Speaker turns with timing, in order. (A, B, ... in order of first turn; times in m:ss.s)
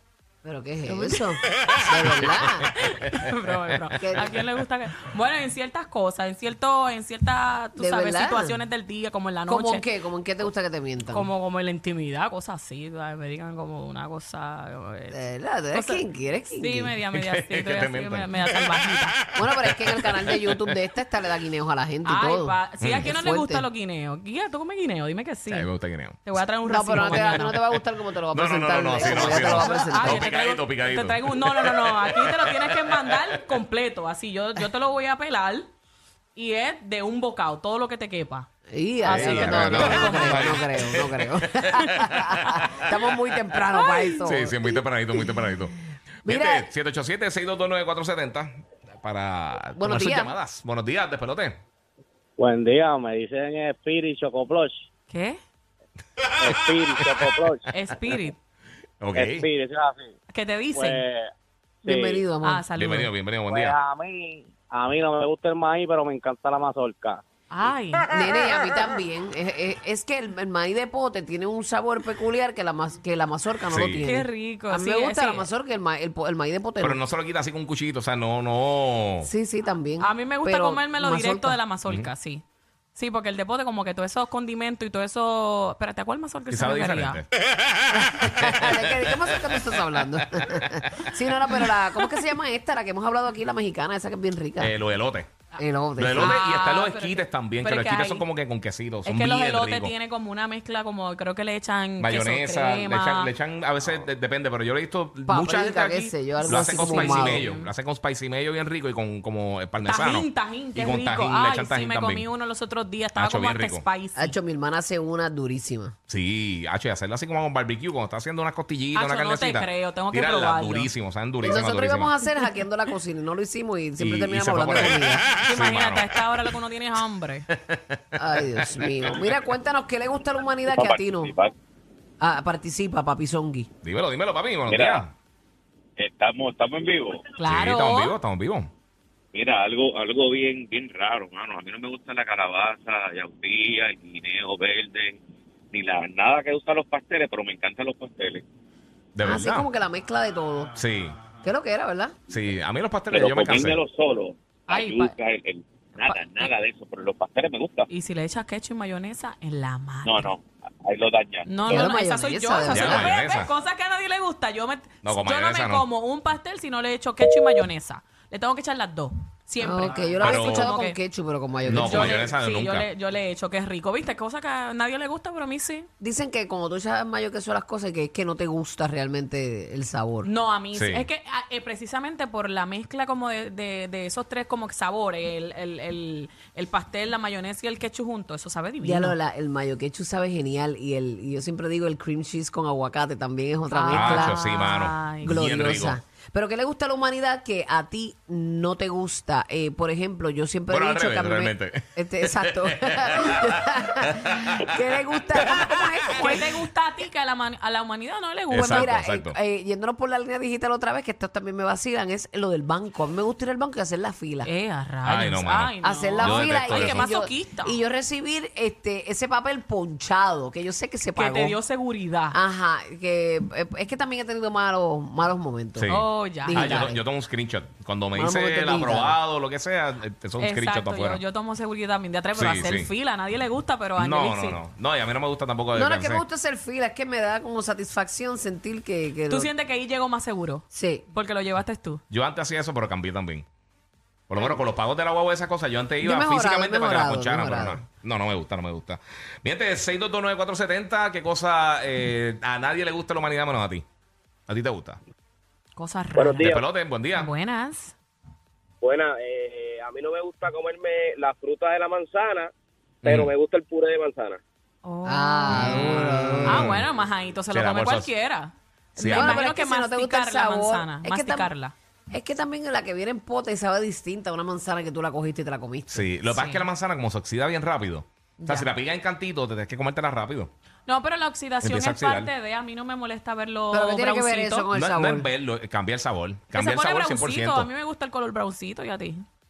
0:00.4-0:02.7 A
0:02.2-0:02.4 B
0:02.7-0:09.8 C
0:04.0-0:04.4 A
0:07.8-0:08.6 A
0:09.5-0:11.3 A
0:11.1-0:15.2 C
0:15.1-0:17.0 A
0:15.7-0:16.0 C
0:16.6-0:19.2 C
0:17.1-0:18.6 B
0:19.4-0:23.7 A
0:19.4-0:20.6 B
0:22.0-0:25.7 C
0:22.8-0:23.1 B
0:25.5-0:26.3 B
0:26.2-0:27.7 C
0:26.7-0:30.2 A
0:28.3-0:33.3 B
0:29.0-0:35.7 C
0:36.3-0:38.5 C
0:38.7-0:45.2 A
0:39.0-0:40.6 C
0:39.1-0:42.7 B
0:43.7-0:44.2 C
0:44.2-0:51.6 B
0:46.2-0:46.7 A
0:49.8-0:50.3 A
0:52.4-0:54.8 D
0:55.1-0:55.4 C
0:56.3-0:57.4 B
0:56.4-0:57.6 D
0:57.7-0:58.4 C
0:59.0-0:59.5 B
0:59.2-1:00.1 D
1:00.3-1:01.0 C
1:00.8-1:01.3 D
1:01.8-1:02.6 A
1:01.9-1:02.2 D
1:02.4-1:03.1 C
1:02.7-1:03.8 B
1:03.5-1:07.2 D
1:07.5-1:08.1 C
1:08.1-1:17.0 A
1:13.7-1:14.1 B
1:14.0-1:15.5 C
1:16.8-1:19.3 B
1:19.2-1:21.6 A
1:20.0-1:22.4 C
1:22.9-1:27.2 C
1:26.5-1:29.1 B
1:27.9-1:34.7 A
1:30.4-1:31.1 B
1:34.6-1:35.3 B
1:35.6-1:36.4 A
1:36.0-1:39.9 B
1:36.1-1:38.2 C
1:39.0-1:43.3 C
1:42.0-1:52.3 B
1:45.3-1:47.4 A
1:46.4-1:47.7 C
1:49.8-1:54.3 C
1:53.2-1:53.8 B
1:54.2-1:55.9 A
1:56.1-2:02.2 B
1:58.9-2:00.9 C
2:01.4-2:05.2 A
2:04.0-2:06.5 B
2:05.4-2:07.4 C
2:07.5-2:09.1 B
2:08.2-2:11.3 A
2:10.6-2:11.5 E
2:12.2-2:13.7 A
2:13.8-2:15.1 B
2:14.7-2:15.1 E
2:16.0-2:17.3 E
2:17.4-2:18.1 C
2:17.4-2:18.7 B
2:19.3-2:25.2 E
2:25.7-2:28.4 E
2:29.2-2:29.7 B
2:29.2-2:30.8 A
2:30.7-2:31.2 B
2:31.4-2:32.1 A
2:32.3-2:33.8 B
2:33.1-2:37.9 E
2:34.7-2:35.1 C
2:36.0-2:36.5 C
2:37.9-2:40.3 C
2:40.0-2:41.9 E
2:41.4-2:51.0 C
2:41.6-2:43.1 A
2:42.6-2:43.5 B
2:45.0-2:45.8 B
2:49.6-2:52.2 A
2:50.2-2:50.7 B
2:51.6-2:52.9 B
2:51.7-2:55.9 C
2:56.0-3:00.3 A
3:00.2-3:09.2 C
3:00.7-3:01.0 B
3:08.8-3:14.4 A
3:13.7-3:15.4 C
3:13.9-3:16.0 B
3:15.2-3:26.6 A
3:20.7-3:23.5 B
3:26.1-3:28.9 C
3:28.5-3:29.4 B
3:28.5-3:34.5 A
3:34.4-3:37.8 C
3:35.0-3:37.1 B
3:35.8-3:41.6 A
3:41.1-3:42.4 C
3:42.3-3:47.0 A
3:45.8-3:51.2 B
3:45.9-3:46.9 C
3:48.1-3:49.2 A
3:50.4-3:54.6 C
3:52.3-3:52.9 B
3:54.0-3:56.2 B
3:55.7-3:59.5 A
3:59.3-4:02.0 C
4:00.7-4:01.0 A
4:02.1-4:03.4 B
4:04.3-4:13.8 B
4:06.0-4:07.8 A
4:14.5-4:15.0 B
4:15.7-4:16.5 C
4:16.1-4:16.6 F
4:16.4-4:17.3 B
4:17.1-4:17.9 C
4:18.8-4:22.5 F
4:23.0-4:23.3 B
4:23.0-4:24.4 F
4:24.8-4:25.8 C
4:25.1-4:26.8 A
4:25.5-4:26.9 B
4:26.4-4:31.7 C
4:27.5-4:28.1 B
4:29.0-4:29.4 B
4:29.0-4:31.5 A
4:32.1-4:36.1 A
4:35.9-4:40.5 B
4:36.3-4:36.6 C
4:38.4-4:38.7 C
4:40.8-4:44.7 C
4:41.6-4:42.3 B
4:43.7-4:45.3 A
4:44.7-4:47.7 B
4:46.5-4:49.2 C